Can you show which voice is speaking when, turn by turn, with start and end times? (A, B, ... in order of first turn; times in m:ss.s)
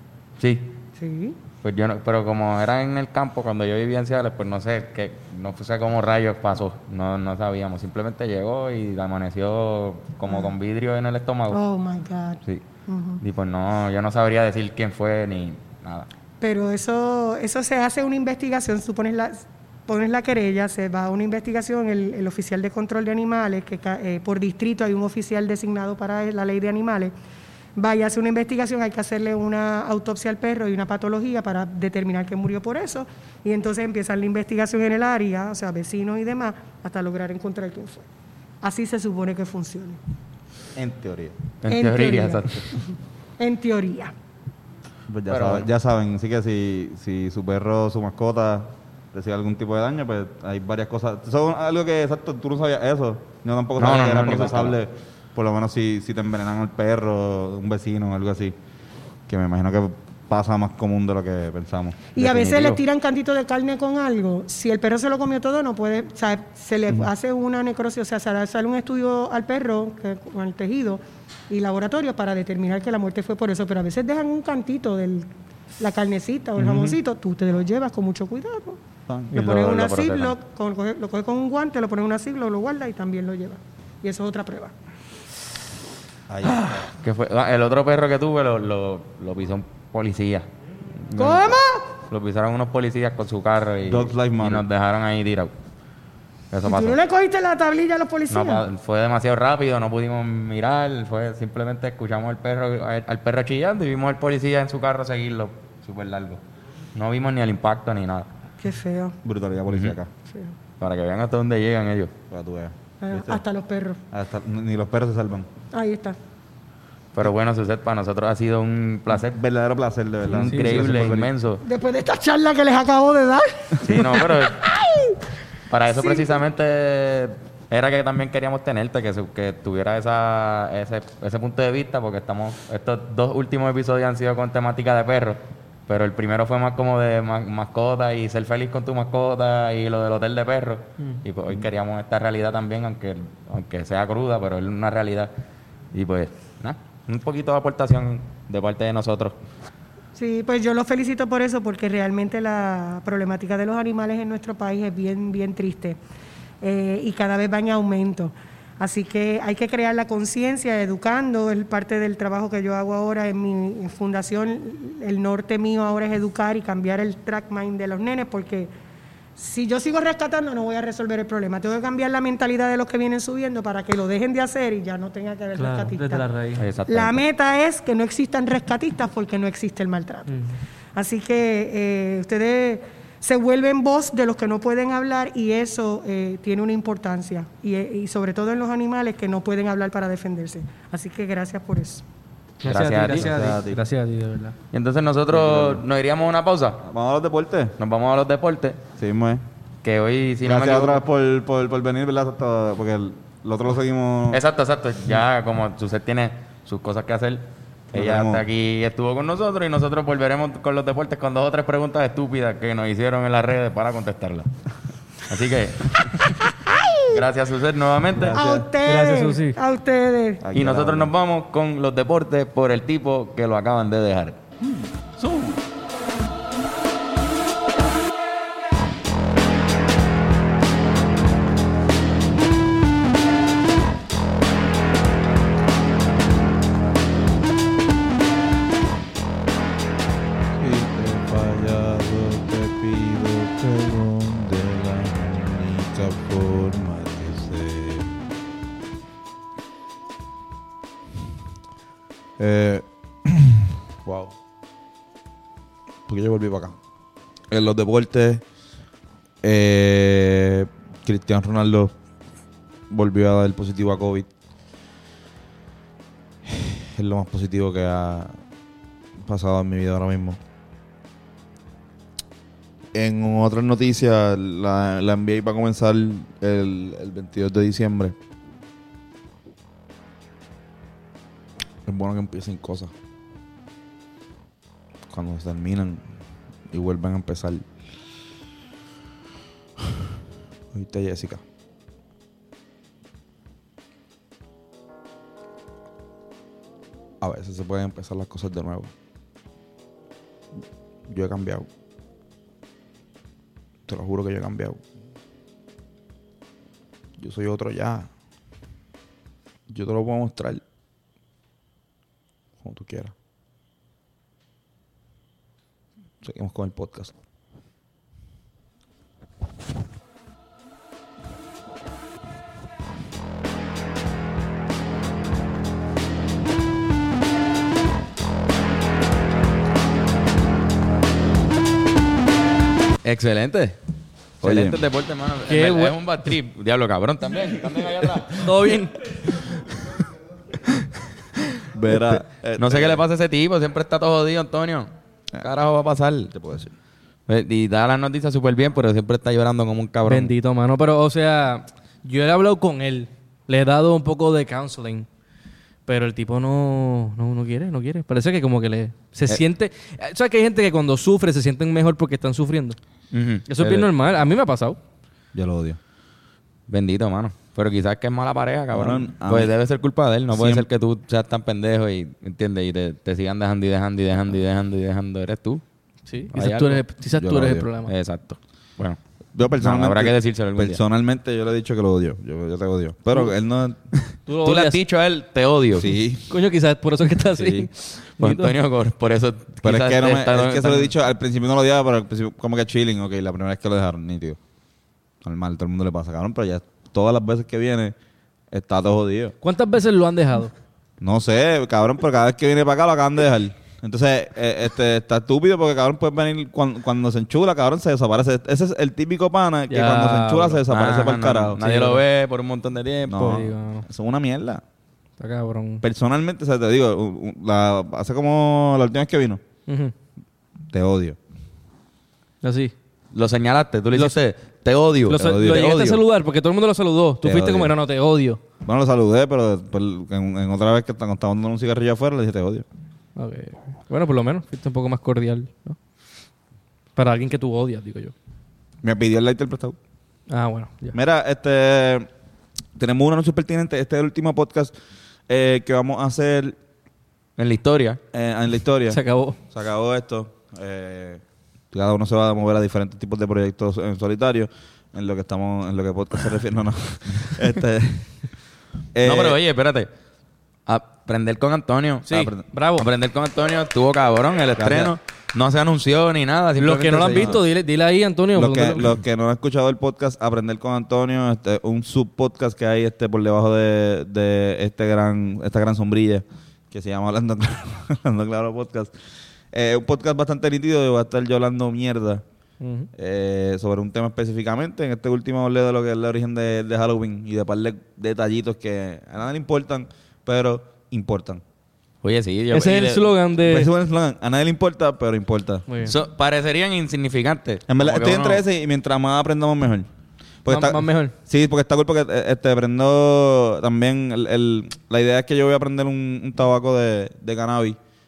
0:00.4-0:00.8 A
0:01.0-0:01.4 B
0:01.6-0:11.6 A
0:10.3-0:10.5 B
0:11.5-0:13.2 B
0:13.2-0:16.1 A
0:16.4-0:27.1 B
0:27.8-0:38.1 B
0:38.6-0:40.0 B
0:40.8-0:41.4 C
0:41.6-0:42.8 A
0:41.7-0:44.1 B
0:45.1-0:58.6 C
0:45.3-0:45.7 A
0:53.8-0:54.8 A
0:59.3-1:02.8 C
1:02.2-1:18.8 B
1:16.6-1:17.0 C
1:19.1-1:19.5 C
1:19.3-1:24.7 B
1:19.3-1:20.4 A
1:26.3-1:26.9 C
1:27.0-1:30.5 A
1:31.0-1:31.6 C
1:31.2-1:31.9 B
1:32.1-1:35.5 A
1:33.8-1:34.6 C
1:36.5-1:37.0 A
1:36.6-1:38.7 B
1:38.3-1:46.4 A
1:47.0-1:48.3 A
1:48.6-1:49.2 B
1:49.2-1:50.1 C
1:50.3-1:50.6 B
1:50.8-1:52.1 A
1:52.3-1:53.4 C
1:53.0-1:54.0 B
1:54.1-1:55.5 C
1:55.7-1:56.2 B
1:57.2-1:59.4 A
1:59.1-2:01.3 C
2:00.3-2:01.6 A
2:00.5-2:01.1 D
2:01.6-2:05.2 B
2:03.8-2:04.6 A
2:05.7-2:25.3 A
2:05.9-2:06.4 B
2:25.9-2:29.4 A
2:30.2-2:36.0 B
2:36.6-2:48.7 B
2:49.4-2:56.3 B
2:55.6-2:56.6 D
2:56.6-2:57.2 A
2:56.9-3:00.3 B
3:01.0-3:12.0 B
3:12.6-3:14.6 D
3:12.7-3:13.4 A
3:12.7-3:13.8 C
3:14.7-3:16.8 A
3:15.3-3:15.8 C
3:16.8-3:17.8 C
3:17.8-3:18.8 A
3:19.0-3:19.4 C
3:19.8-3:21.0 A
3:20.4-3:24.4 C
3:24.3-3:34.5 A
3:27.9-3:28.4 C
3:35.2-3:36.3 A
3:37.0-3:38.4 A
3:38.2-3:38.7 C
3:38.4-3:40.4 B
3:38.8-3:39.6 D
3:40.4-3:41.1 C
3:40.5-3:44.4 A
3:44.6-3:45.6 C
4:00.6-4:08.1 C
4:12.4-4:14.1 C
4:16.1-4:16.8 C
4:17.5-4:18.4 C
4:19.4-4:21.9 C
4:22.9-4:24.3 C
4:26.4-4:28.4 C
4:29.2-4:30.4 C
4:32.9-4:38.2 C
4:41.8-4:42.9 C
4:45.1-4:46.0 C
4:46.7-4:47.7 C
4:49.8-4:50.1 C
4:50.7-4:51.4 C
4:57.2-4:58.9 C
5:01.1-5:01.7 C
5:03.9-5:04.8 C
5:07.2-5:08.1 C
5:09.7-5:10.6 C
5:12.6-5:13.1 C
5:16.2-5:17.2 C
5:33.0-5:33.8 A
5:34.4-5:38.5 A
5:34.4-5:34.8 C
5:35.5-5:36.0 D
5:38.4-5:39.0 D
5:41.7-5:43.0 C
5:42.6-5:46.3 A
5:46.3-5:46.7 C
5:47.3-5:50.3 A
5:50.1-5:55.1 D
5:55.9-6:02.8 D
6:03.1-6:03.9 A
6:03.5-6:04.8 D
6:05.3-6:05.8 C
6:06.7-6:15.6 A
6:08.7-6:09.5 C
6:10.3-6:10.6 C
6:16.1-6:17.9 D
6:16.3-6:16.9 A
6:17.2-6:17.7 C
6:17.9-6:20.8 A
6:19.4-6:23.8 C
6:24.1-6:25.9 A
6:24.3-6:24.8 D
6:25.8-6:26.3 C
6:26.3-6:28.5 D
6:27.4-6:27.7 C
6:28.2-6:30.9 A
6:29.6-6:34.4 C
6:35.2-6:37.9 C
6:38.5-6:39.3 C
6:39.4-6:40.5 D
6:41.0-6:51.6 C
6:49.7-6:50.6 D
6:50.7-6:53.4 A
6:51.6-6:52.0 D
6:53.1-6:54.6 C
6:53.2-6:53.9 D
6:55.2-6:55.8 D
6:55.8-6:59.4 C
6:59.7-6:59.9 D
7:00.7-7:01.2 C
7:02.4-7:02.7 D
7:03.1-7:05.2 A
7:05.1-7:08.4 D
7:05.1-7:06.0 C
7:07.2-7:07.7 C
7:08.6-7:12.6 C
7:13.2-7:15.8 D
7:17.0-7:18.1 D
7:18.8-7:19.8 C
7:20.3-7:21.0 D
7:20.9-7:22.1 C
7:22.8-7:24.7 C
7:25.3-7:26.6 C
7:27.4-7:28.0 A
7:28.1-7:38.3 C
7:28.9-7:29.4 D
7:38.9-7:39.4 C
7:39.0-7:39.9 A
7:40.7-7:47.4 A
7:42.1-7:42.9 D
7:44.6-7:44.9 C
7:46.6-7:48.9 D
7:47.0-7:47.4 C
7:48.4-7:58.9 C
7:59.5-8:02.2 C
8:02.6-8:02.9 D
8:03.0-8:11.4 C
8:12.0-8:13.1 A
8:12.5-8:13.7 D
8:13.4-8:15.7 C
8:15.7-8:16.0 D
8:15.8-8:18.4 A
8:17.7-8:19.9 C
8:20.4-8:27.8 C
8:20.5-8:21.2 D